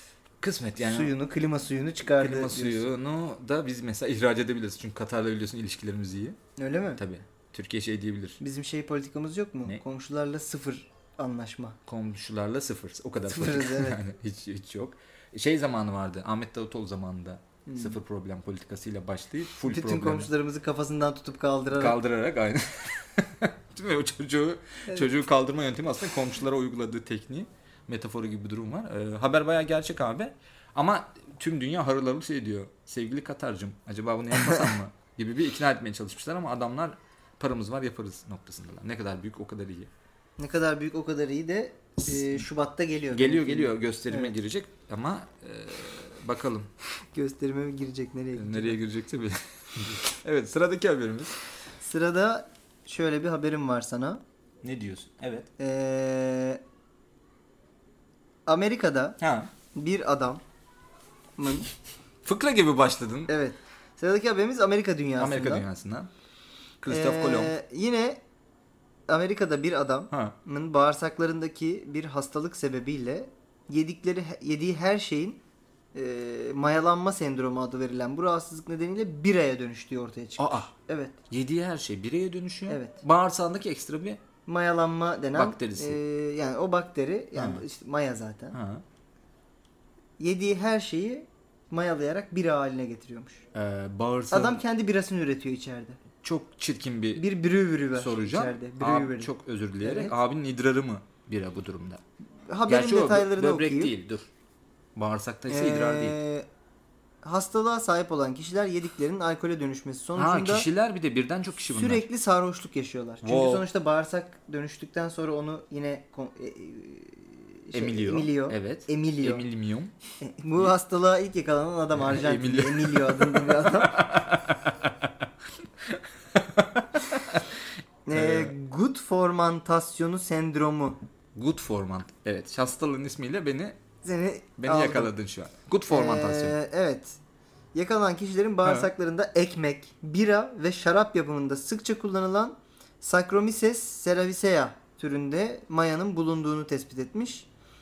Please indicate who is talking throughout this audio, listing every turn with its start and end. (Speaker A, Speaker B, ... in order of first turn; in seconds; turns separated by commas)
Speaker A: 0.4-1.1, Speaker B: 0.8-2.9, Speaker A: 2.0-6.4, Speaker B: 6.6-7.0, Speaker A: 7.0-8.4, Speaker B: 8.4-11.8, Speaker A: 11.9-20.3, Speaker B: 13.3-14.0, Speaker B: 17.6-18.0, Speaker B: 19.6-22.0, Speaker A: 21.7-39.9, Speaker B: 40.4-44.3, Speaker A: 42.0-42.5, Speaker A: 43.1-46.7, Speaker B: 47.1-48.8, Speaker A: 48.3-51.3, Speaker B: 51.8-54.2, Speaker A: 54.6-55.5, Speaker B: 55.6-56.6, Speaker B: 58.5-59.2, Speaker A: 59.2-59.5, Speaker B: 59.7-60.4, Speaker B: 61.4-61.7, Speaker A: 62.2-63.3, Speaker B: 63.3-65.6, Speaker A: 65.2-66.1, Speaker A: 66.8-67.5, Speaker B: 66.9-68.2, Speaker B: 69.1-75.4, Speaker A: 70.1-70.3, Speaker B: 75.9-81.2, Speaker A: 80.4-80.7, Speaker A: 81.3-84.2, Speaker B: 82.7-83.0, Speaker B: 84.5-88.5, Speaker A: 85.3-86.0, Speaker A: 87.3-87.6, Speaker A: 88.5-88.8, Speaker B: 90.2-93.4, Speaker A: 93.5-94.6, Speaker B: 94.3-96.0, Speaker A: 96.2-97.2, Speaker B: 97.2-99.3, Speaker A: 97.9-102.0, Speaker B: 99.8-100.1, Speaker B: 102.5-103.9, Speaker A: 102.7-104.3, Speaker A: 105.0-106.2, Speaker B: 105.5-106.5, Speaker B: 107.2-110.7, Speaker A: 110.2-112.0, Speaker B: 111.7-119.4, Speaker A: 113.2-113.6, Speaker A: 117.7-119.9, Speaker B: 120.2-124.1, Speaker A: 121.9-125.3, Speaker A: 125.8-127.6, Speaker B: 128.1-131.0, Speaker A: 128.1-128.5, Speaker A: 131.3-133.8, Speaker B: 134.0-135.1, Speaker A: 134.6-136.6, Speaker B: 135.9-137.2, Speaker B: 137.7-147.5